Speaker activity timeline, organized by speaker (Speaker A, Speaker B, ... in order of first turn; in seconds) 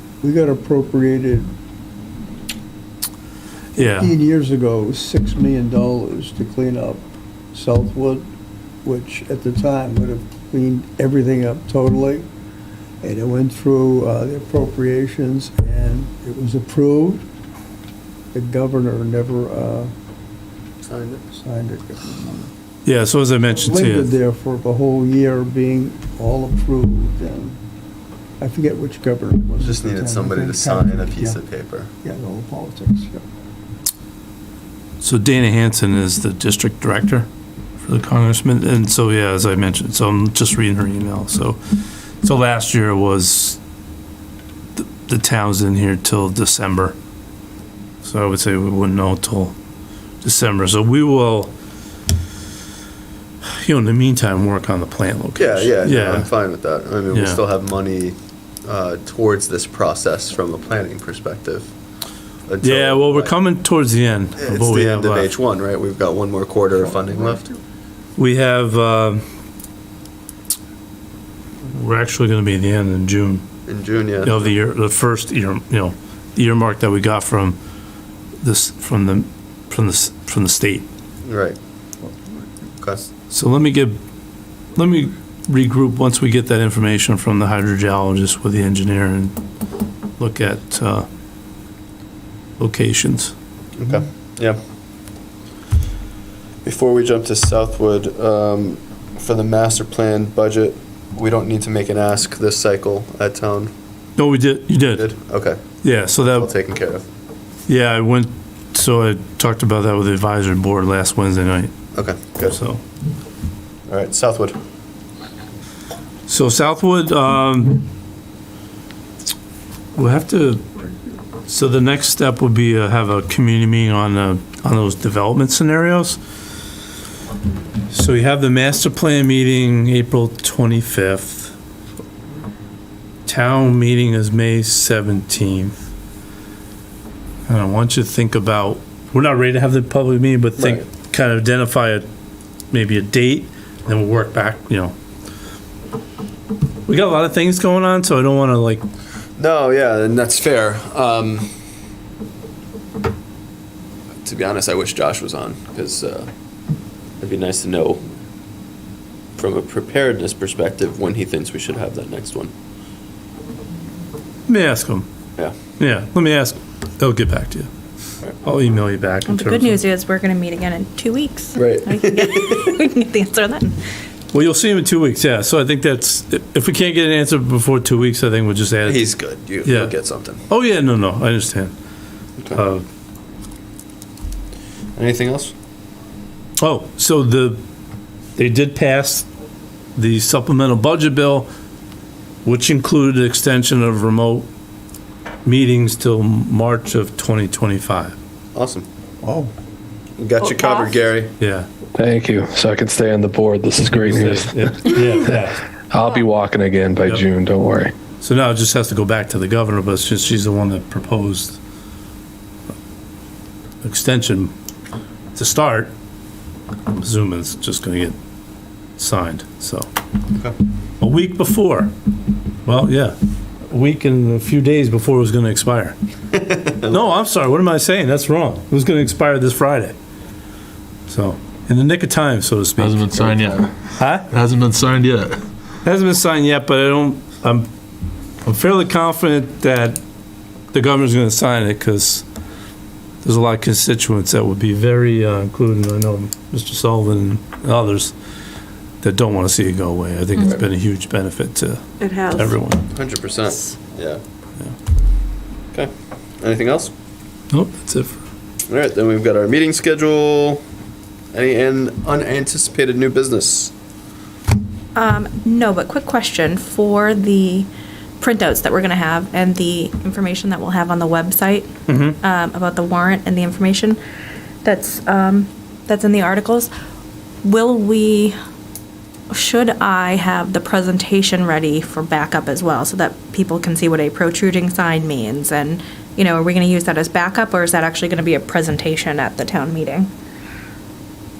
Speaker A: 0.2-1.5, 3.9-8.2, 8.8-12.3, 13.0-17.2, 18.3-19.9, 21.4-22.5, 23.5-27.6, 28.4-31.4, 32.0-33.2, 199.2-199.5
Speaker B: 3.8-4.2, 22.8-24.1, 35.0-37.3, 37.8-41.6, 42.2-43.6, 44.8-47.0, 48.0-49.5, 50.2-51.5, 53.4-56.3, 57.1-57.4, 62.6-65.3, 68.2-69.2, 71.7-73.5, 74.2-77.6, 78.4-80.9, 83.3-84.0, 84.7-89.4, 90.2-91.1, 92.6-93.3, 104.2-105.1, 105.8-106.5, 107.7-111.7, 112.4-112.8, 116.3-117.8, 119.9-120.7, 121.5-126.2, 127.9-131.5, 133.2-135.8, 137.5-142.1, 142.7-144.9, 146.9-148.8, 164.5-165.1, 165.8-167.7, 168.4-169.8, 174.3-179.1, 179.6-179.9, 180.5-181.7, 182.5-182.8, 186.6-187.6, 188.3-189.2, 189.9-191.5, 192.4-194.5, 195.4-198.2, 201.4-201.7, 203.9-205.6, 208.2-211.6, 213.8-214.5, 215.3-215.9, 216.9-218.2, 219.0-219.9, 221.0-221.9, 222.6-226.0, 226.9-229.9, 231.1-233.1, 233.9-234.3, 235.8-237.7, 238.4-240.0, 240.7-242.2, 243.2-248.1, 249.0-252.9, 257.5-258.2, 271.9-272.2
Speaker C: 20.8-21.4, 29.5-31.9, 55.4-61.7, 62.5-63.3, 64.4-67.5, 73.7-74.4, 81.2-81.6, 82.8-83.1, 93.8-94.6, 96.6-103.7, 104.9-105.6, 106.2-107.0, 111.9-112.6, 113.9-114.6, 140.6-140.8, 149.4-151.5, 154.2-156.3, 157.2-158.0, 159.4-162.5, 171.6-172.5, 178.8-180.4, 184.9-185.5, 198.5-198.9, 200.2-201.3, 226.3-227.0, 233.2-233.5, 252.9-254.2, 255.7-256.9, 258.7-260.6, 261.3-263.7
Speaker D: 169.3-173.8, 252.0-252.5, 264.9-267.7, 268.2-274.0, 274.6-276.7, 277.4-278.3, 279.3-290.1
Speaker E: 201.9-205.3, 205.9-207.9
Speaker F: 232.8-233.7, 234.3-235.4